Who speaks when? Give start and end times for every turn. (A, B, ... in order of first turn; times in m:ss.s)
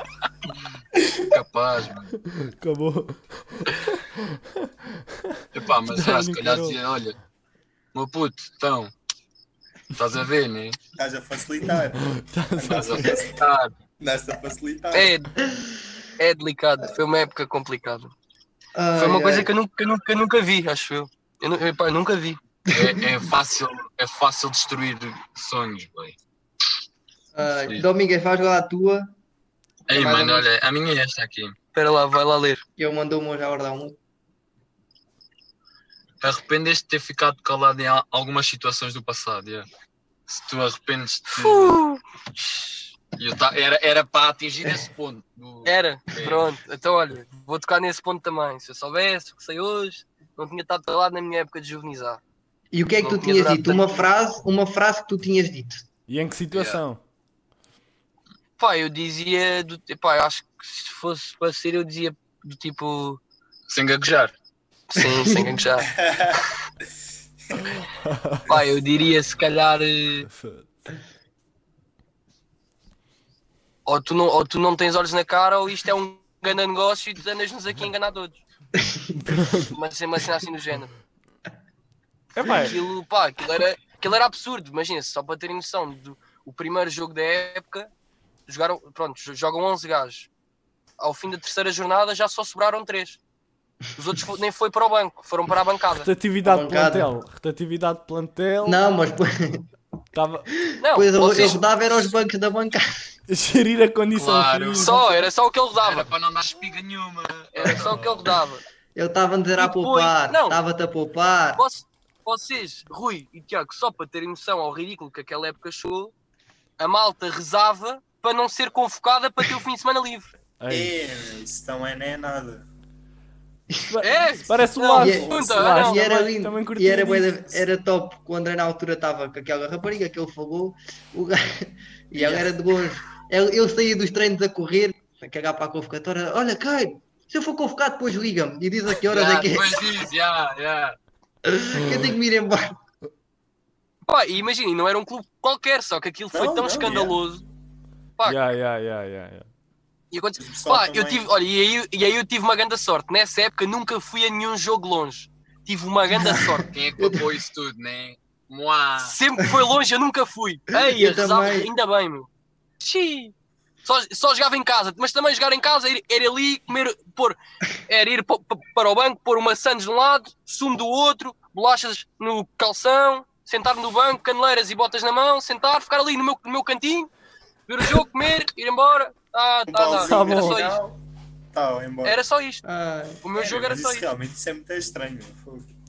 0:01.2-0:02.1 A
0:02.2-0:04.7 B
0:05.5-0:07.2 A
0:05.9-0:06.8 B
0:07.9-0:08.9 A
0:09.9-0:10.8 A
0:11.0-0:12.2 C
0:12.0-0:13.1 B
0:12.6-0:13.7 A
0:12.7-0:13.3 C
0:14.0-0:15.2 C
0:14.9-0:15.3 D
0:15.5-0:15.8 E
0:16.2-0:18.1 D
0:18.8-0:19.5 E
0:19.0-0:22.4 D
0:22.7-0:23.0 E
0:22.7-0:26.2 A
0:27.3-0:29.1 E
0:27.4-0:27.9 A
0:29.9-0:31.6 A
0:29.9-0:30.5 E
0:31.7-0:32.6 D
0:32.8-0:34.0 E
0:36.2-0:39.7 A
0:40.3-0:41.8 A
0:41.3-0:42.9 D
0:43.2-0:46.5 A
0:45.6-0:52.2 D
0:52.7-0:55.8 E
0:53.0-0:54.1 D
0:56.1-0:57.0 B
0:56.5-0:56.8 A
0:58.6-1:03.2 D
1:03.7-1:04.3 A
1:04.9-1:05.9 D
1:05.0-1:05.6 E
1:05.8-1:06.4 C
1:07.5-1:07.8 C
1:08.1-1:08.4 B
1:08.5-1:10.3 D
1:10.3-1:10.7 B
1:13.9-1:18.4 D
1:18.8-1:19.5 E
1:19.4-1:19.7 B
1:19.7-1:20.9 D
1:22.4-1:22.8 B
1:22.4-1:27.9 D
1:28.5-1:30.3 D
1:31.0-1:33.2 D
1:34.0-1:36.1 D
1:36.0-1:38.8 B
1:36.4-1:37.1 E
1:38.6-1:39.7 E
1:40.1-1:40.6 B
1:40.8-1:41.6 D
1:40.8-1:43.1 E
1:43.3-1:45.0 B
1:44.1-1:48.3 A
1:44.8-1:46.1 D
1:47.5-1:48.6 D
1:49.0-1:51.6 E
1:49.6-1:50.6 D
1:51.6-1:56.1 D
1:56.8-2:00.3 D
2:00.6-2:01.1 B
2:00.7-2:02.6 C
2:03.8-2:07.5 B
2:04.0-2:06.0 D
2:05.0-2:19.9 E
2:12.2-2:12.4 C
2:19.1-2:21.0 A
2:21.5-2:22.8 E
2:24.1-2:27.4 D
2:26.3-2:27.2 C
2:28.2-2:29.4 B
2:30.1-2:36.7 D
2:30.4-2:31.3 C
2:36.1-2:37.2 E
2:36.7-2:39.2 A
2:39.0-2:42.3 D
2:40.8-2:41.7 E
2:42.8-2:43.3 D
2:43.8-2:57.1 D
2:57.7-3:00.8 D
2:59.7-3:01.0 C
3:00.0-3:00.6 B
3:01.5-3:02.2 C
3:02.0-3:02.6 D
3:02.6-3:03.2 E
3:03.2-3:04.1 D
3:03.3-3:05.7 C